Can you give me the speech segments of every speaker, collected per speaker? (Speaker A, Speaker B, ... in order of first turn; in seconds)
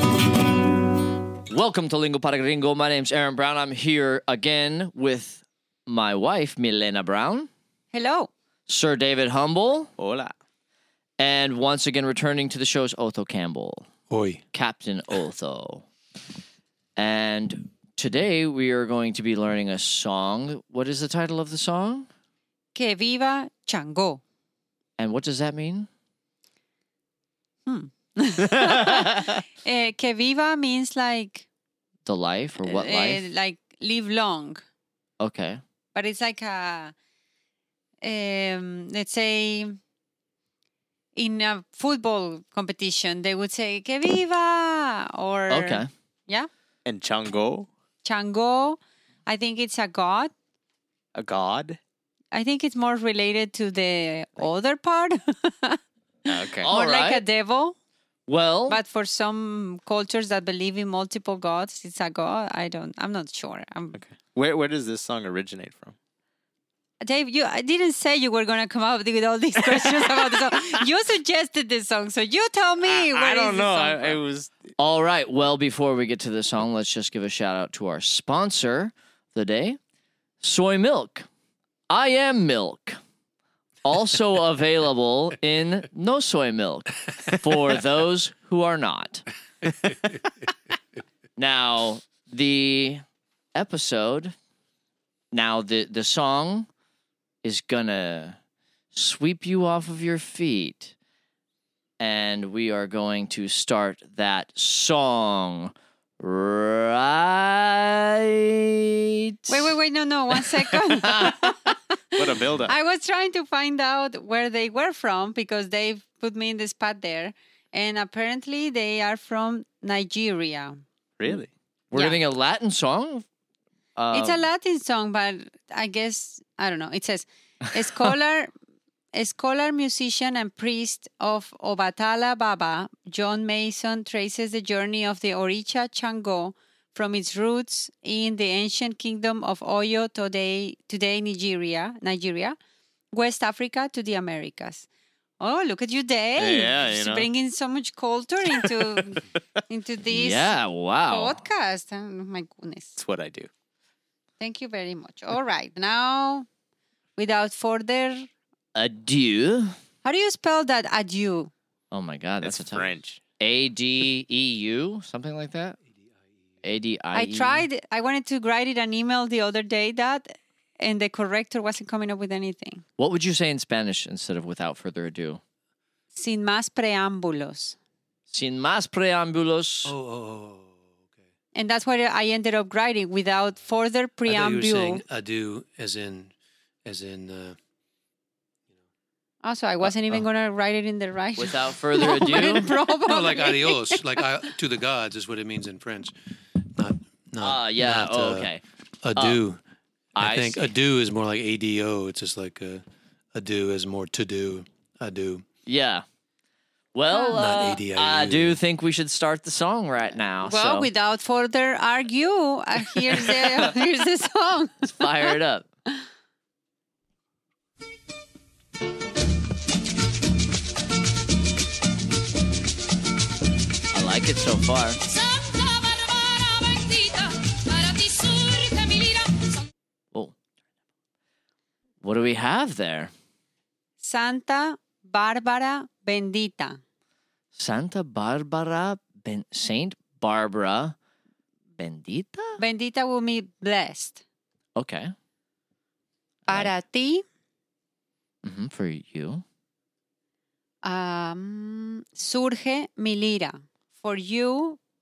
Speaker A: 1.5-7.5, 8.7-9.9, 11.2-13.9, 14.5-15.8, 17.0-22.1, 25.0-25.9, 32.1-33.2, 35.2-35.6, 45.5-45.9, 56.6-57.2, 58.3-58.8, 74.8-79.8, 80.4-81.3, 81.9-83.0, 83.8-89.3, 91.4-93.0, 93.5-94.3, 95.3-96.7, 97.4-98.4, 98.9-100.9, 102.0-109.7, 110.3-111.5, 121.9-123.2, 124.0-124.4, 150.1-151.4, 158.8-159.8, 161.9-165.8, 166.6-167.7, 173.0-175.4, 178.3-180.0, 191.4-192.8, 197.4-198.6, 200.2-200.7, 205.7-206.0, 206.9-210.9, 213.2-213.5, 214.8-215.7, 223.9-225.0, 232.0-233.1, 237.6-240.9, 241.8-242.6, 244.8-245.1, 248.4-249.4
Speaker B: 7.9-8.3, 22.8-24.2, 27.7-31.5, 32.6-34.6, 35.9-37.0, 38.0-39.8, 41.2-46.5, 48.0-50.3, 52.3-55.8, 56.6-57.8, 58.7-64.0, 67.0-74.2, 109.5-120.8, 122.0-122.2, 124.1-128.5, 129.1-142.6, 143.1-144.9, 145.4-150.5, 151.1-153.0, 154.4-156.5, 157.2-158.3, 160.0-161.5, 167.1-172.8, 176.2-177.8, 181.5-185.0, 189.4-194.2, 207.1-207.4, 210.4-215.4, 234.0-236.8, 242.6-244.2, 246.5-247.2, 250.8-254.8
Speaker C: 10.0-10.3, 46.9-47.7, 51.1-51.8, 56.3-56.7, 64.0-66.0, 72.8-74.6, 112.2-112.8, 121.2-121.5, 146.4-147.3, 148.5-149.2, 153.0-153.5, 162.4-163.2
Speaker D: 14.1-14.4, 179.8-180.9, 184.3-186.3, 186.8-187.6, 193.0-198.5, 199.0-199.6, 200.2-202.8, 203.3-205.5, 207.3-208.6
Speaker E: 225.1-229.7